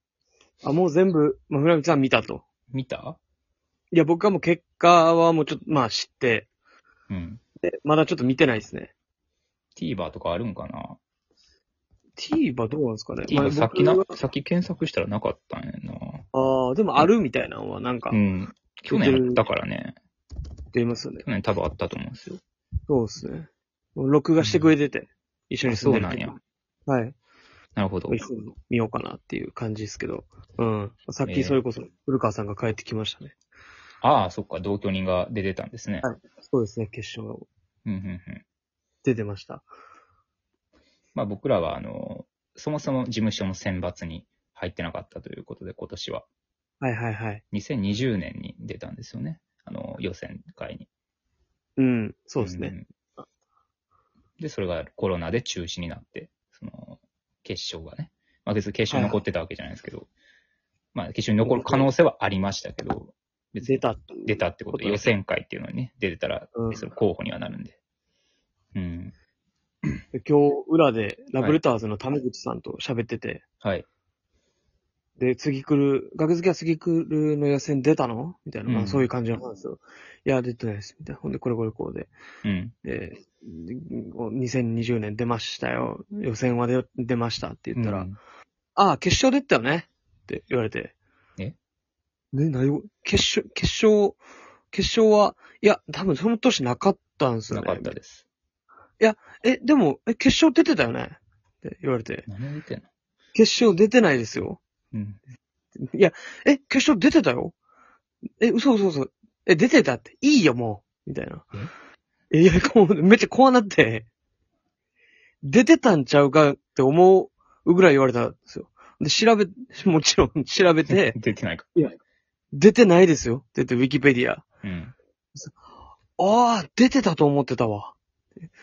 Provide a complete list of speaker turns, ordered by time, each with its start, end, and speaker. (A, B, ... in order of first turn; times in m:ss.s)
0:00.6-0:02.4 A
0:02.7-0:03.2 B
0:03.9-0:06.5 A
0:07.1-0:07.4 B
0:07.6-0:08.9 A
0:09.8-0:11.0 B
0:12.2-0:14.2 A
0:13.3-0:16.2 B
0:16.3-0:18.2 A
0:18.1-0:20.0 B
0:18.9-0:19.4 A
0:20.7-0:21.2 A
0:21.2-0:22.4 B
0:22.9-0:27.2 A
0:24.4-0:24.7 B
0:25.6-0:26.4 B
0:27.8-0:28.2 B
0:28.1-0:33.3 A
0:31.3-0:31.6 B
0:34.0-0:36.1 B
0:36.0-0:37.5 A
0:37.9-0:38.4 B
0:39.0-0:39.7 A
0:41.2-0:46.3 B
0:46.8-0:47.4 A
0:47.5-0:50.9 B
0:51.8-0:52.8 A
0:52.4-0:52.8 B
0:54.4-1:00.1 B
0:58.9-0:59.2 A
1:00.9-1:07.8 B
1:01.4-1:01.9 A
1:03.6-1:05.1 A
1:06.6-1:06.9 A
1:08.7-1:09.1 B
1:10.1-1:13.4 A
1:15.2-1:22.1 A
1:18.7-1:19.1 B
1:22.4-1:22.7 B
1:22.8-1:28.1 A
1:27.8-1:28.2 B
1:28.8-1:31.0 A
1:32.3-1:34.2 A
1:34.7-1:37.9 A
1:37.5-1:38.2 B
1:39.0-1:42.3 A
1:42.3-1:42.9 B
1:43.4-1:44.6 A
1:44.9-1:45.2 B
1:45.8-1:47.6 A
1:48.4-1:51.5 A
1:52.3-1:54.1 A
1:55.4-2:01.2 A
2:00.9-2:01.7 B
2:02.5-2:04.4 A
2:04.6-2:04.9 B
2:06.2-2:08.0 A